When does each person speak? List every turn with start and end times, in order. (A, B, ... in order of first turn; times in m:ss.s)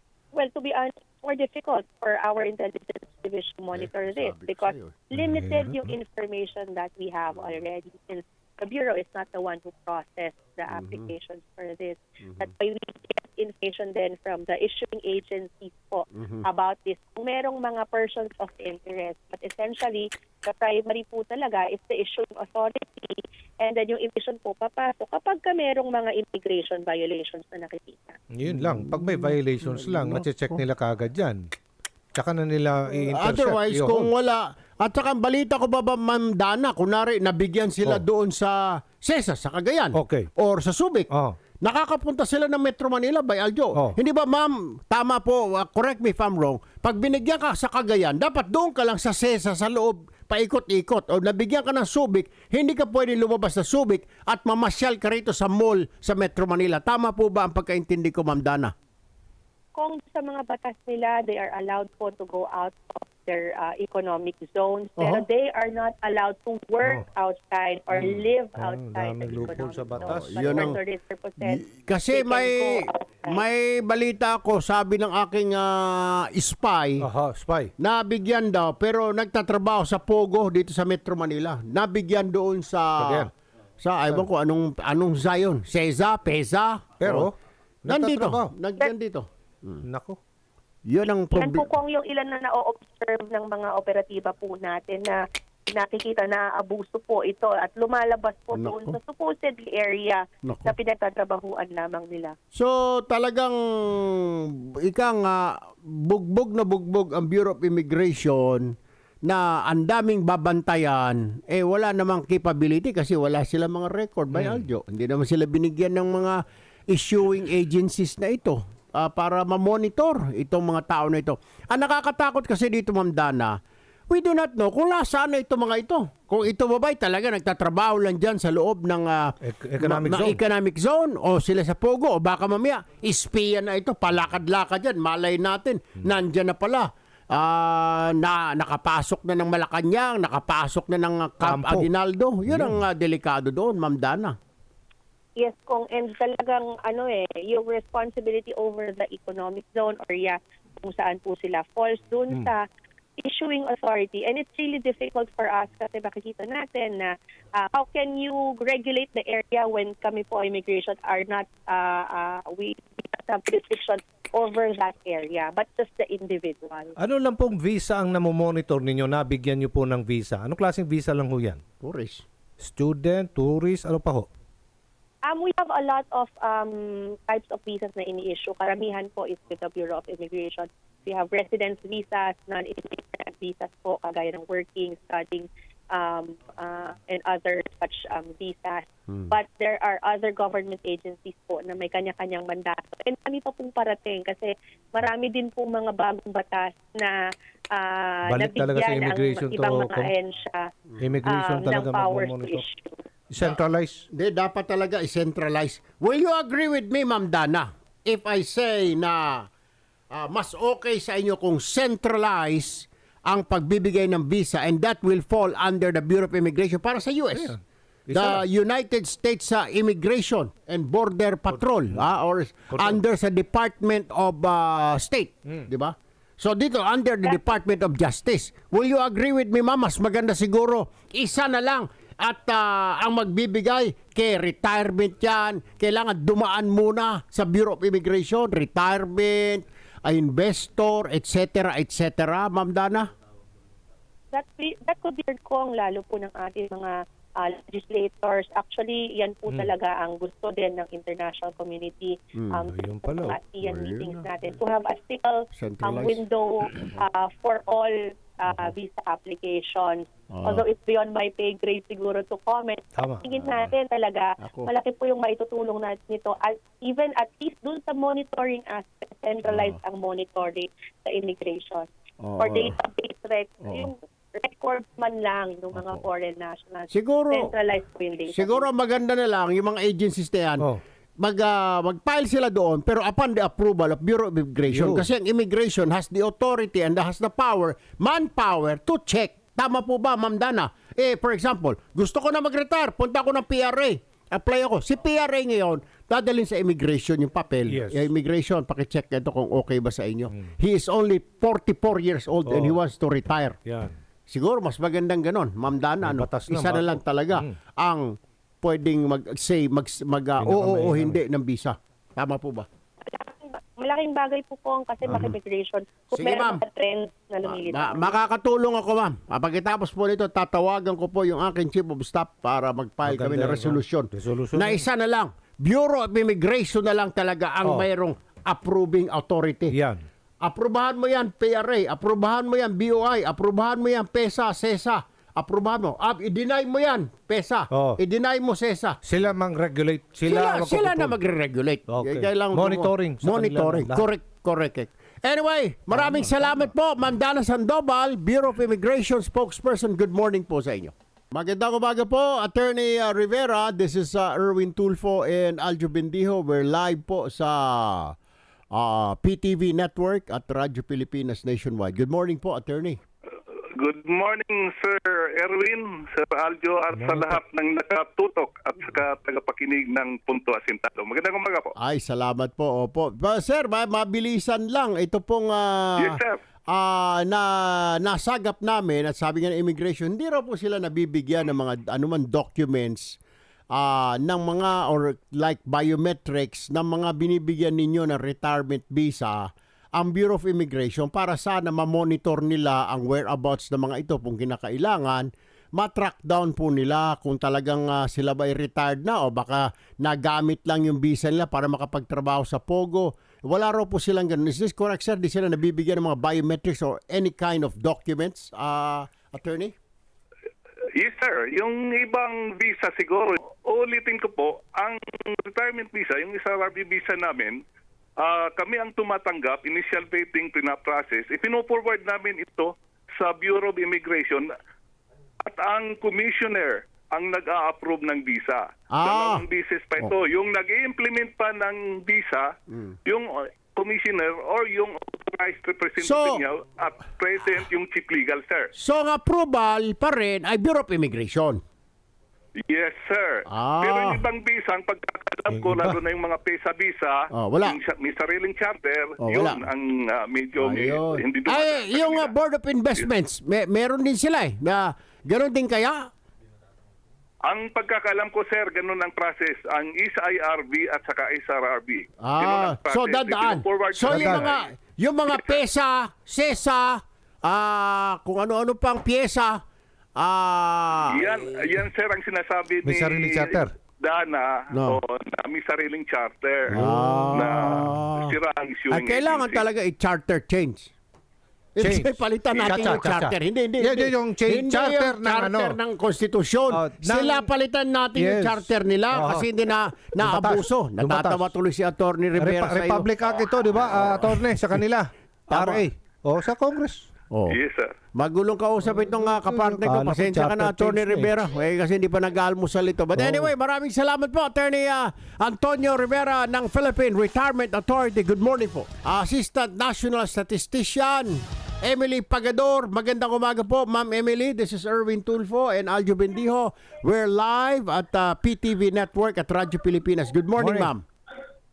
0:00.3-0:28.2 A
0:03.7-0:05.0 B
0:05.2-0:05.9 C
0:10.7-0:11.1 B
0:12.2-0:12.5 B
0:16.2-0:16.4 B
0:28.4-0:31.4 C
0:28.5-0:30.6 B
0:32.2-0:34.1 C
0:33.1-0:41.1 B
0:40.0-0:40.3 C
0:41.6-0:58.7 B
0:59.8-1:11.6 A
1:05.0-1:05.2 B
1:08.6-1:10.8 C
1:10.0-1:10.8 B
1:11.4-1:17.1 B
1:12.1-1:13.4 A
1:17.0-1:17.7 C
1:17.8-1:23.3 B
1:23.0-1:23.3 C
1:23.8-1:27.3 B
1:27.0-1:27.3 C
1:27.9-1:28.5 C
1:27.9-1:29.8 B
1:29.8-1:30.2 C
1:30.9-1:31.7 B
1:31.3-1:42.4 A
1:38.5-1:39.0 B
1:40.4-1:40.8 B
1:42.5-1:48.7 B
1:49.3-2:03.6 B
1:54.3-1:54.6 C
2:04.1-2:24.4 B
2:09.4-2:10.4 C
2:21.4-2:21.9 C
2:22.5-2:22.8 C
2:25.4-2:32.7 A
2:33.2-2:47.0 A
2:47.0-2:51.6 C
2:51.8-2:52.2 B
2:52.6-2:54.3 C
2:55.2-3:17.2 A
3:17.7-3:20.7 A
3:18.3-3:20.1 C
3:21.0-3:22.6 C
3:21.2-3:23.0 A
3:23.3-3:24.0 C
3:24.1-3:29.5 B
3:30.1-3:37.6 B
3:37.4-3:38.4 C
3:38.1-4:03.1 B
3:41.5-3:42.0 C
3:42.7-3:43.0 C
3:47.2-3:47.5 A
4:04.3-4:31.9 A
4:12.4-4:12.6 B
4:12.7-4:13.4 C
4:13.6-4:14.3 B
4:15.5-4:16.2 B
4:16.7-4:17.0 B
4:20.3-4:20.6 B
4:23.3-4:23.7 B
4:24.4-4:24.7 B
4:29.5-4:29.8 B
4:32.2-4:32.8 B
4:32.4-4:38.7 A
4:33.6-4:33.9 B
4:35.7-4:36.0 B
4:36.9-4:37.5 B
4:38.3-4:40.7 B
4:41.2-5:03.6 B
4:44.7-4:45.1 C
4:57.7-4:58.1 C
5:02.5-5:02.8 C
5:03.6-5:04.0 C
5:04.3-5:08.1 B
5:06.0-5:07.5 C
5:08.6-5:12.7 B
5:10.4-5:11.2 C
5:13.0-5:18.1 A
5:15.1-5:15.4 B
5:16.1-5:16.6 B
5:17.4-5:29.8 B
5:23.1-5:24.8 C
5:29.7-5:30.0 C
5:30.4-5:39.0 B
5:37.7-5:38.0 C
5:39.0-5:41.2 C
5:40.3-5:58.2 B
5:41.9-5:44.0 C
5:45.9-5:46.6 C
5:58.7-6:03.0 B
6:03.8-6:11.7 D
6:06.9-6:07.4 C
6:11.8-6:23.2 B
6:16.0-6:16.4 D
6:23.7-6:49.8 B
6:51.0-6:57.6 D
6:58.2-7:04.5 D
7:05.4-7:12.5 D
7:08.9-7:09.5 B
7:12.7-7:13.0 B
7:13.1-7:18.7 D
7:16.0-7:16.4 B
7:18.8-7:21.6 B
7:22.6-7:32.3 D
7:23.5-7:24.3 B
7:25.5-7:26.0 C
7:27.3-7:27.8 B
7:29.2-7:29.7 B
7:30.6-7:36.0 B
7:37.5-7:44.6 D
7:42.2-7:49.6 B
7:44.0-7:44.5 C
7:45.3-7:45.6 D
7:50.2-7:51.3 B
7:51.1-7:56.8 D
7:52.8-7:53.7 C
7:54.7-7:55.0 B
7:56.7-7:58.4 B
7:56.7-7:57.9 C
7:57.3-7:59.6 D
7:58.9-8:00.9 B
8:01.8-8:13.1 B
8:01.8-8:02.1 C
8:02.6-8:05.8 C
8:06.7-8:07.5 C
8:08.2-8:09.5 C
8:10.2-8:11.5 C
8:12.4-8:17.1 C
8:15.5-8:15.8 B
8:17.3-8:17.6 B
8:17.5-8:17.9 D
8:18.2-8:41.0 B
8:19.0-8:21.3 C
8:23.2-8:23.5 C
8:40.6-8:40.9 C